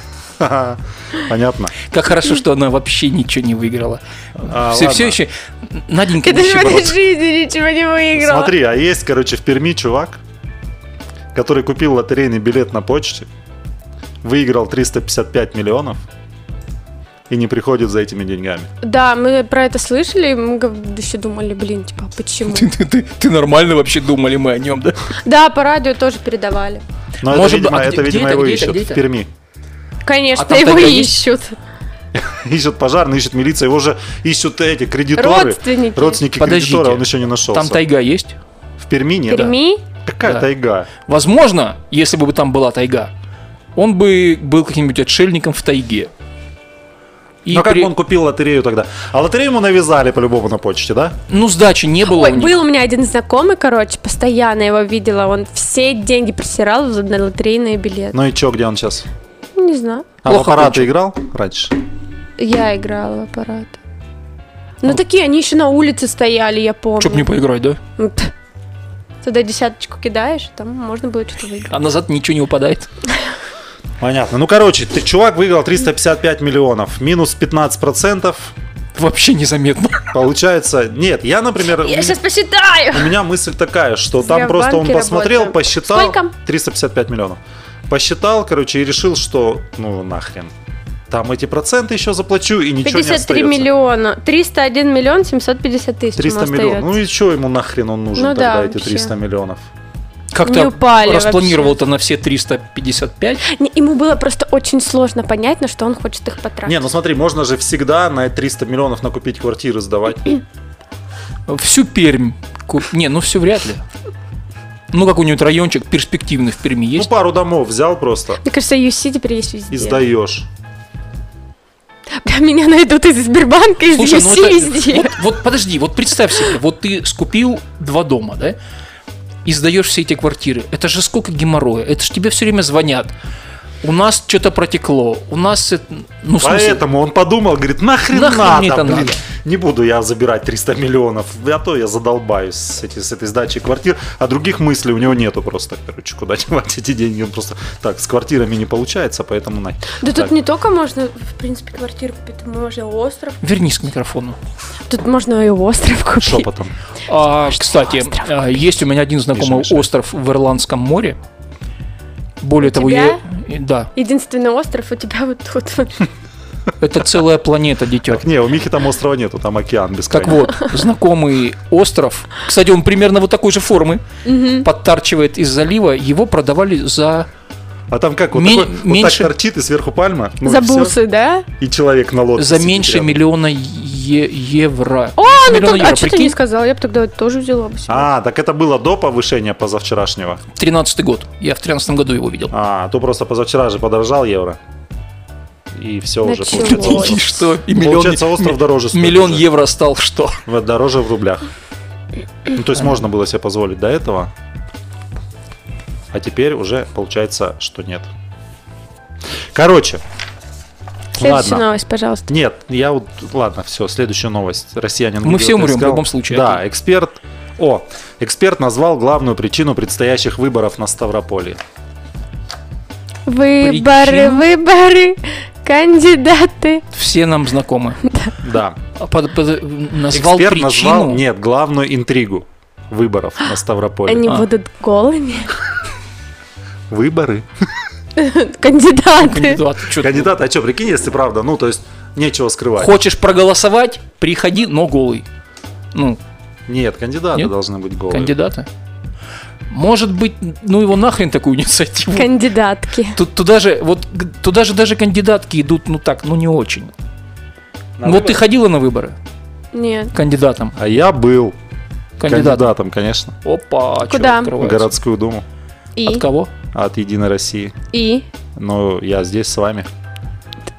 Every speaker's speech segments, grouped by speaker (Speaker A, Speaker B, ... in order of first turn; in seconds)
Speaker A: 0.4-1.7, 4.4-5.2, 8.2-10.2, 11.3-13.3, 14.2-16.0, 17.3-18.7, 27.2-29.3, 32.1-37.8, 38.8-40.9, 47.5-51.2, 58.1-59.1, 60.2-61.7, 74.0-78.5, 80.1-82.2, 82.9-90.5, 91.1-93.7, 96.2-99.7, 106.6-110.3, 117.0-118.4, 119.7-120.5, 136.4-150.3, 156.2-156.7, 159.3-159.9, 168.1-170.5, 177.9-180.9, 181.6-183.2, 187.9-190.4, 192.5-194.6, 195.7-199.5, 200.4-201.5, 202.5-204.3, 206.1-208.1, 209.5-210.0, 211.2-211.7, 212.3-221.6, 228.4-228.8, 230.1-234.3, 236.9-237.7, 240.0-243.0, 246.7-248.3, 258.0-258.4, 260.8-261.6, 262.2-263.3, 264.6-265.4, 266.7-267.7, 268.6-269.9
Speaker B: 1.9-7.0, 22.5-25.0, 27.2-29.0, 30.4-31.2, 36.4-38.4, 41.0-43.1, 43.8-46.1, 47.4-47.9, 51.3-52.6, 60.2-60.9, 67.0-67.8, 71.7-72.9, 78.9-80.1, 100.3-103.4, 111.5-113.8, 114.9-117.1, 123.9-128.6, 129.4-133.1, 133.8-136.8, 138.1-139.2, 153.4-154.4, 157.1-161.2, 162.4-163.9, 166.8-168.2, 170.1-174.0, 174.6-177.3, 178.3-179.3, 182.3-186.3, 190.6-192.5, 196.5-200.4, 215.2-216.6, 223.6-224.4, 226.9-228.0, 228.9-231.2, 239.2-240.3, 242.8-245.2, 245.9-246.2, 248.1-248.7, 249.7-252.3, 253.1-256.9, 258.0-259.1, 260.1-260.7, 262.2-262.7, 263.4-264.9, 266.1-266.5
Speaker C: 6.2-8.5, 18.8-22.7, 25.2-26.8, 30.0-31.6, 35.1-36.2, 39.3-39.8, 52.0-58.2, 59.5-60.1, 62.4-63.8, 64.8-67.3, 68.0-68.3, 69.2-71.8, 81.8-83.1, 84.2-86.3, 92.8-96.9, 98.2-99.1, 100.4-101.8, 103.4-106.8, 118.4-120.0, 122.2-125.2, 150.0-153.4, 154.9-156.5, 157.5-158.5, 162.6-163.2, 163.9-166.1, 174.2-174.7, 180.4-181.5, 185.2-188.1, 196.2-197.2, 211.1-212.3, 223.2-226.8, 234.1-235.5, 238.2-239.6, 252.1-253.2, 259.7-260.1, 264.1-264.5, 265.9-266.2, 267.9-268.2